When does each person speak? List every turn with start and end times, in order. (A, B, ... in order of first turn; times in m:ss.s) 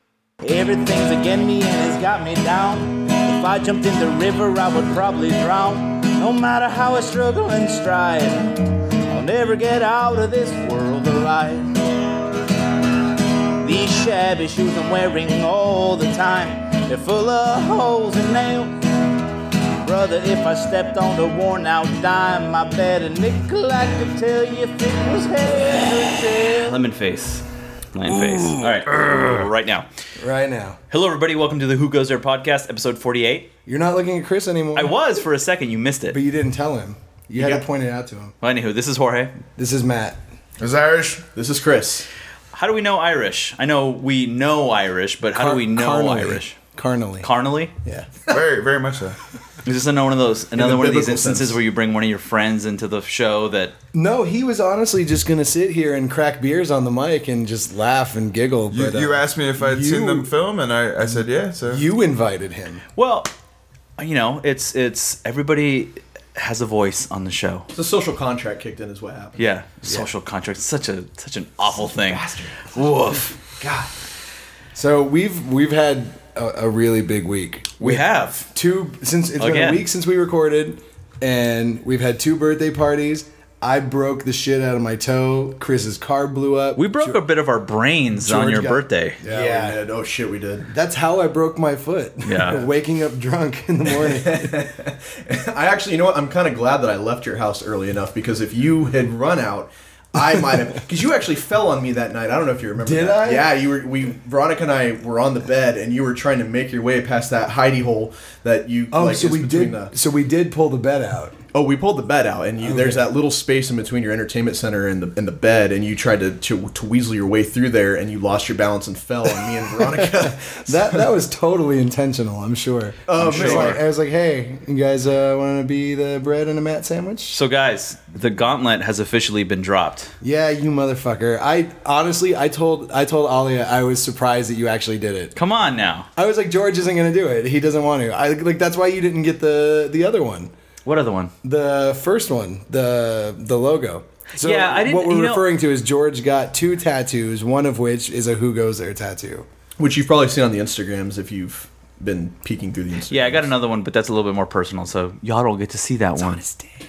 0:00.4-0:08.6 A
0:09.1-0:11.7 A
0:13.6-0:18.8 A
0:19.8-0:26.8 A
0:26.4-0:29.9 B
0:30.2-0:30.8 C
0:30.9-0:33.5 B
0:33.6-0:35.0 C
0:34.7-0:36.2 B
0:36.1-0:38.3 C
0:38.4-0:39.3 B
0:39.6-0:40.2 C
0:40.6-0:41.2 D
0:41.3-0:42.1 E
0:42.5-0:46.6 B
0:45.3-0:47.3 C
0:47.2-0:47.7 B
0:47.8-0:48.1 C
0:48.3-0:49.2 D
0:49.6-0:53.7 B
0:50.5-0:51.6 E
0:53.9-1:00.3 C
0:58.7-1:01.8 D
1:01.1-1:02.8 C
1:03.0-1:03.3 B
1:04.0-1:07.7 B
1:07.7-1:09.4 E
1:09.4-1:13.4 B
1:11.8-1:12.7 E
1:13.6-1:13.9 E
1:14.7-1:18.0 C
1:17.8-1:18.5 B
1:18.5-1:27.2 C
1:19.4-1:19.8 B
1:26.8-1:29.2 B
1:28.2-1:29.8 C
1:29.2-1:30.7 E
1:30.7-1:34.7 C
1:32.2-1:32.6 B
1:34.0-1:49.9 E
1:42.8-1:43.6 C
1:48.9-1:51.4 C
1:51.5-2:01.1 E
1:52.6-1:53.1 C
1:59.8-2:07.4 C
2:03.1-2:03.8 E
2:03.2-2:03.8 B
2:07.3-2:10.1 B
2:10.2-2:15.3 C
2:15.3-2:16.1 B
2:16.2-2:20.5 C
2:20.8-2:21.3 B
2:21.4-2:29.4 C
2:24.4-2:25.4 B
2:29.8-2:33.4 E
2:33.1-2:36.5 B